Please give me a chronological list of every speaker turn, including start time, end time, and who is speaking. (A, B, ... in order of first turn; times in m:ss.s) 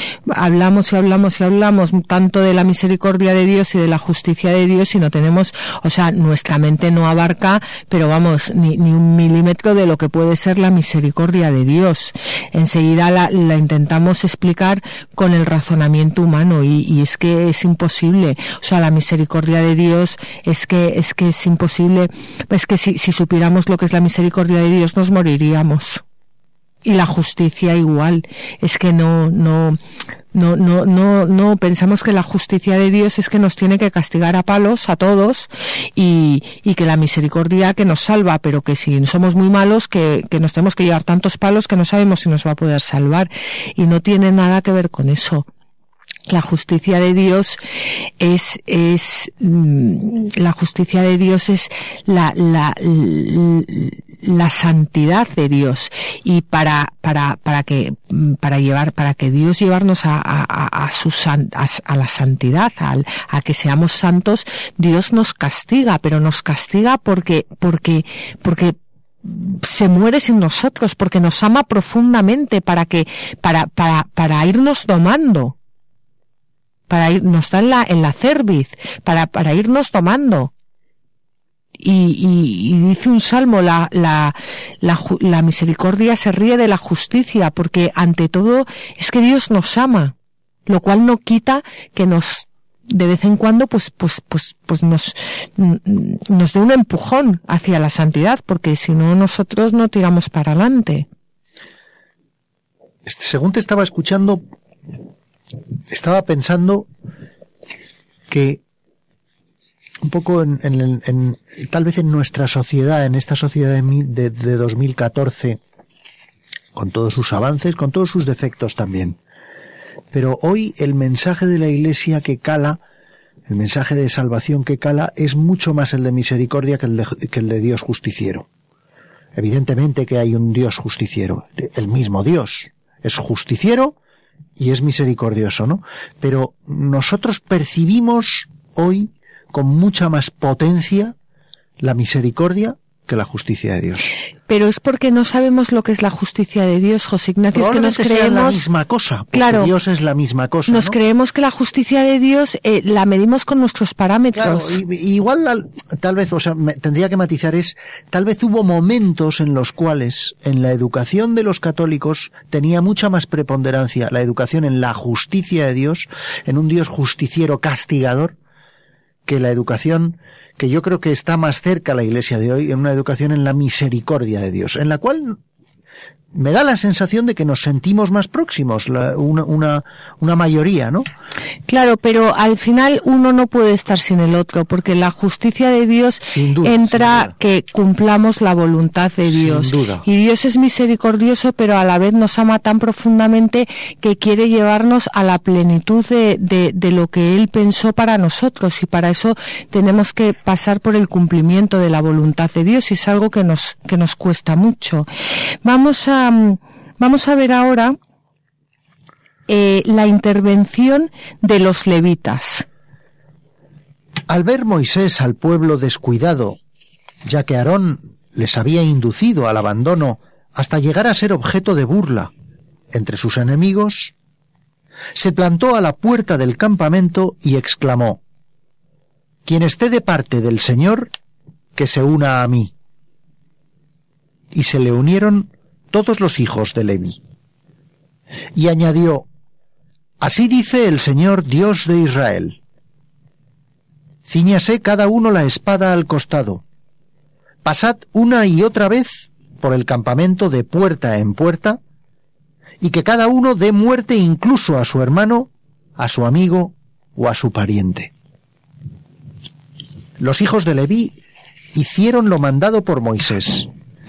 0:00.3-0:26.0 A
0:26.8-0:29.8 A
0:30.3-0:45.5 A
0:46.3-0:47.6 A
0:48.2-1:15.5 A
1:16.9-1:20.5 A
1:21.8-1:30.1 A
1:30.7-1:41.1 A
1:43.0-1:44.4 B
1:45.9-1:46.9 B
1:48.3-1:48.6 B
1:50.0-1:55.6 B
1:56.7-1:59.2 B
2:00.1-2:02.8 B
2:03.5-2:08.5 B
2:09.3-2:14.0 B
2:14.6-2:21.1 B
2:21.8-2:24.1 B
2:24.5-2:28.6 A
2:27.5-2:31.0 B
2:29.3-2:29.7 A
2:30.7-2:34.8 A
2:34.3-2:48.4 B
2:49.2-2:55.4 B
2:56.3-3:01.0 B
3:01.7-3:25.1 A
3:06.2-3:07.3 B
3:09.3-3:10.0 B
3:25.6-3:28.0 A
3:29.5-3:32.6 A
3:34.3-3:36.6 B
3:37.2-3:42.3 B
3:42.9-3:44.1 B
3:45.1-3:48.2 B
3:49.4-3:51.1 B
3:51.7-3:52.7 B
3:54.5-3:57.2 B
3:58.5-3:59.2 B
4:00.2-4:02.6 B
4:04.3-4:06.6 B
4:07.6-4:11.8 B
4:12.8-4:18.1 B
4:20.2-4:21.2 B
4:21.7-4:23.7 B